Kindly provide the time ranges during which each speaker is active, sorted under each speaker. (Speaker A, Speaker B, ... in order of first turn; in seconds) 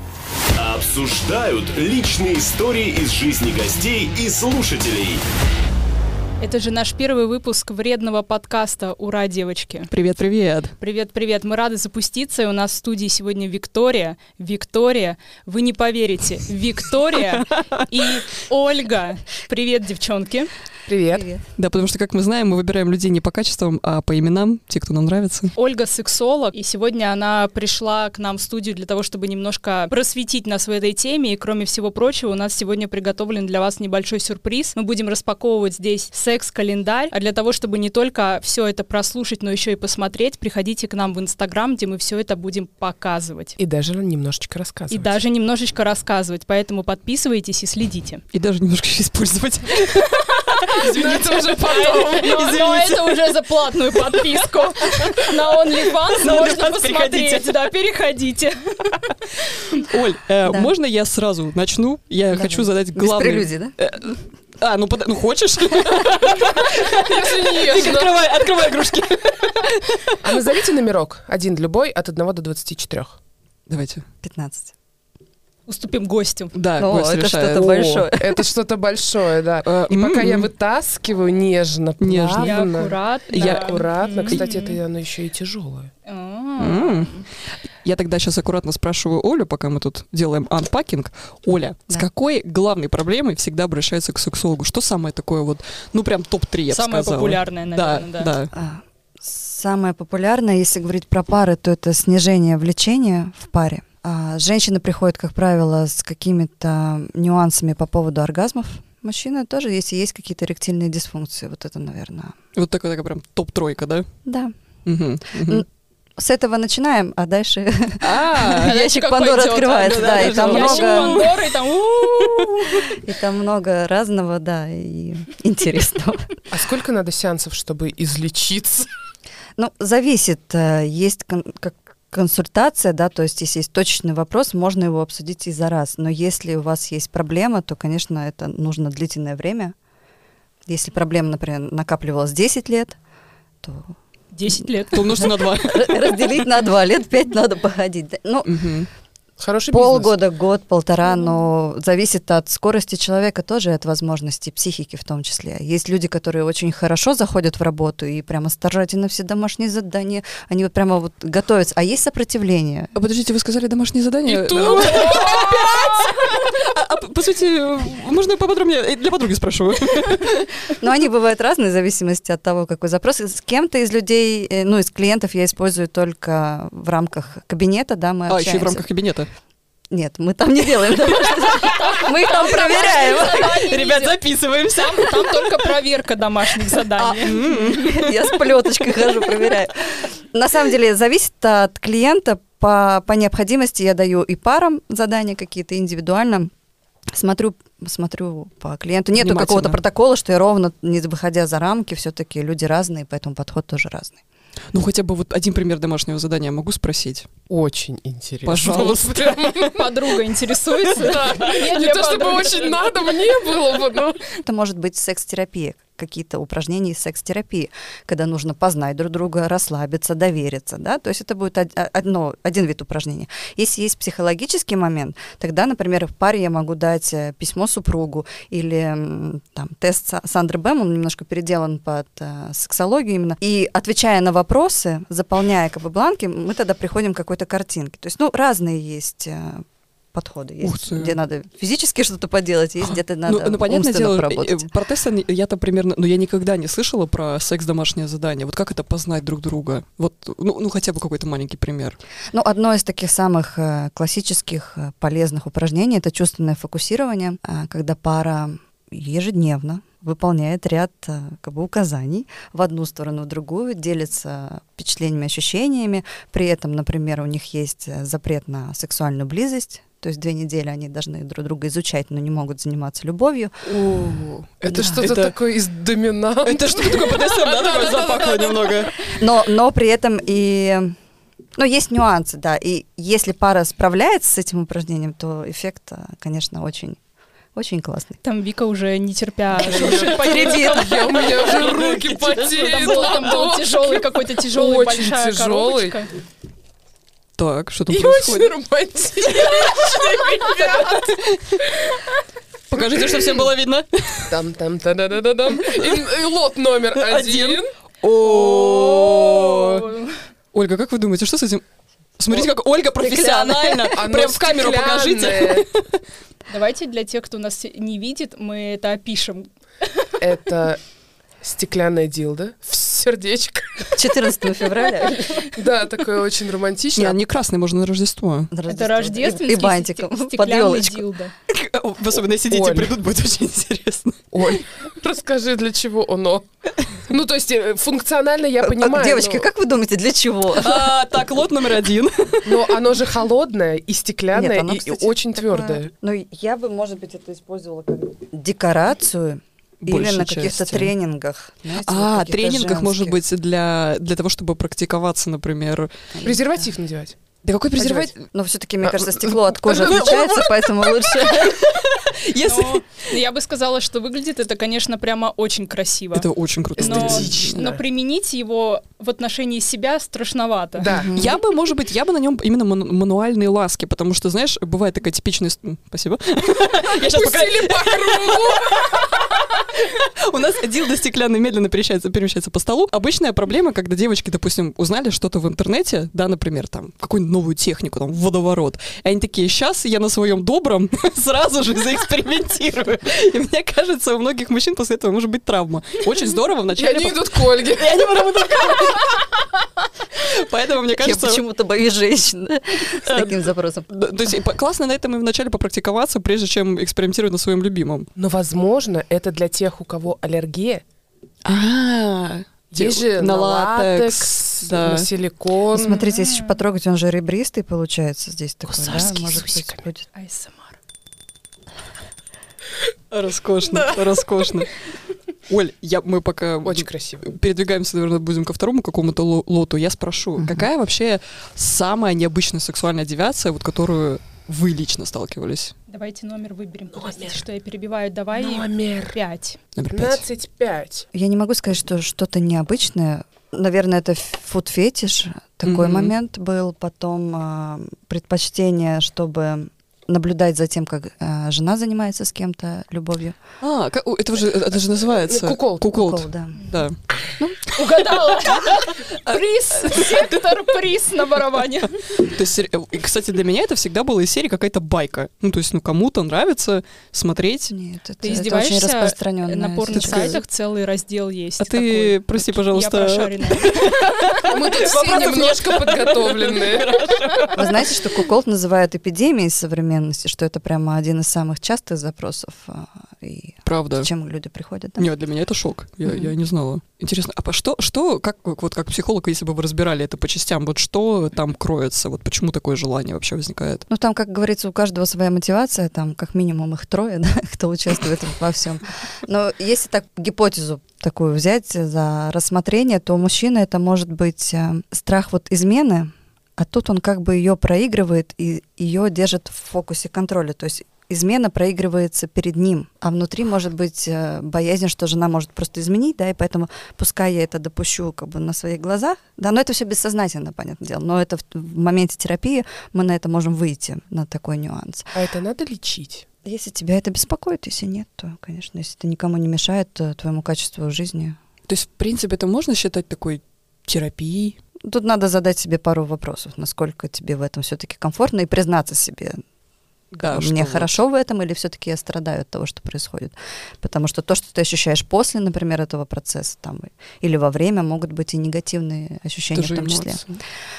Speaker A: 0.6-5.2
Speaker B: 6.4-9.9, 10.8-20.5, 25.6-43.6, 44.9-48.2, 50.2-59.1, 75.7-76.5, 82.4-84.8, 86.0-87.3, 96.7-98.3, 118.5-122.5, 144.3-145.2, 181.5-187.6, 209.6-212.9, 288.2-291.3, 292.6-296.1, 308.2-310.2, 316.5-319.5, 328.7-331.3, 362.4-366.3, 366.8-370.9, 415.9-416.6, 420.1-420.8, 435.9-439.6, 457.7-462.1, 468.2-474.3
Speaker C: 9.9-10.7, 21.6-25.5, 48.3-53.4, 54.8-55.3, 56.1-57.5, 59.7-70.2, 73.7-74.0, 76.5-78.1, 79.6-80.5, 82.0-82.6, 83.3-84.4, 86.6-87.3, 87.8-98.5, 112.5-114.1, 114.8-115.6, 118.0-118.8, 119.7-121.3, 144.9-146.5, 148.4-148.9, 162.9-170.6, 178.3-179.3, 180.9-182.1, 182.9-185.6, 186.7-189.5, 199.1-199.8, 204.7-207.2, 208.4-209.6, 240.6-241.2, 242.8-252.0, 273.6-275.3, 276.4-279.1, 289.6-293.4, 297.4-298.5, 299.2-301.5, 302.7-304.4, 305.6-306.0, 306.9-309.9, 310.5-311.6, 312.2-315.9, 326.9-328.5, 331.5-334.6, 340.5-342.8, 349.8-350.9, 351.8-356.3, 357.4-358.2, 358.8-362.8, 366.1-367.6, 371.1-399.5, 400.1-401.4, 403.0-408.1, 411.4-415.1, 423.1-424.8, 425.5-435.7, 439.8-440.2, 445.6-446.1, 453.6-456.9, 459.9-460.2, 462.1-467.7, 469.9-470.4, 471.6-478.2, 483.6-484.1, 485.0-493.8, 531.7-534.6, 540.1-541.0, 549.5-550.4
Speaker D: 20.9-21.3, 43.6-45.1, 50.8-52.5, 66.7-68.2, 70.2-73.2, 78.2-85.9, 126.5-128.9, 149.4-150.2, 164.2-166.2, 207.5-209.9, 210.9-214.3, 274.6-278.9, 289.6-296.0, 297.9-302.0, 302.7-303.5, 304.3-307.7, 313.9-315.7, 320.2-320.8, 321.4-324.0, 325.5-327.2, 332.5-332.9, 334.3-336.5, 337.1-339.5, 342.4-345.9, 356.2-357.1, 357.8-358.1, 366.8-367.8, 370.8-371.1, 377.0-379.1, 396.8-398.0, 408.2-410.8, 412.7-416.0, 418.7-419.8, 426.6-427.3, 436.9-437.4, 438.3-439.2, 439.9-441.1, 455.3-455.8, 474.4-477.0, 525.1-526.2
Speaker E: 21.1-21.4, 60.5-60.7, 62.3-63.7, 74.2-74.7, 76.8-78.5, 98.5-112.3, 114.2-114.5, 115.4-115.7, 116.2-121.2, 122.1-126.4, 129.6-139.7, 140.7-143.0, 143.6-143.9, 145.0-148.6, 149.7-162.9, 170.7-178.8, 179.9-183.5, 187.4-196.5, 197.1-204.2, 214.4-244.7, 252.3-273.5, 274.7-275.1, 279.2-280.9, 281.6-287.0, 287.5-288.2, 312.3-313.9, 323.9-325.5, 328.5-331.1, 338.6-340.9, 344.3-353.2, 356.2-356.7, 358.3-361.7, 370.9-371.4, 400.9-403.9, 415.7-420.1, 430.4-430.7, 441.1-453.4, 455.9-456.6, 457.4-457.7, 467.7-470.4, 477.5-485.1, 486.1-486.3, 493.9-525.1, 526.4-531.4, 534.8-539.4, 540.2-550.2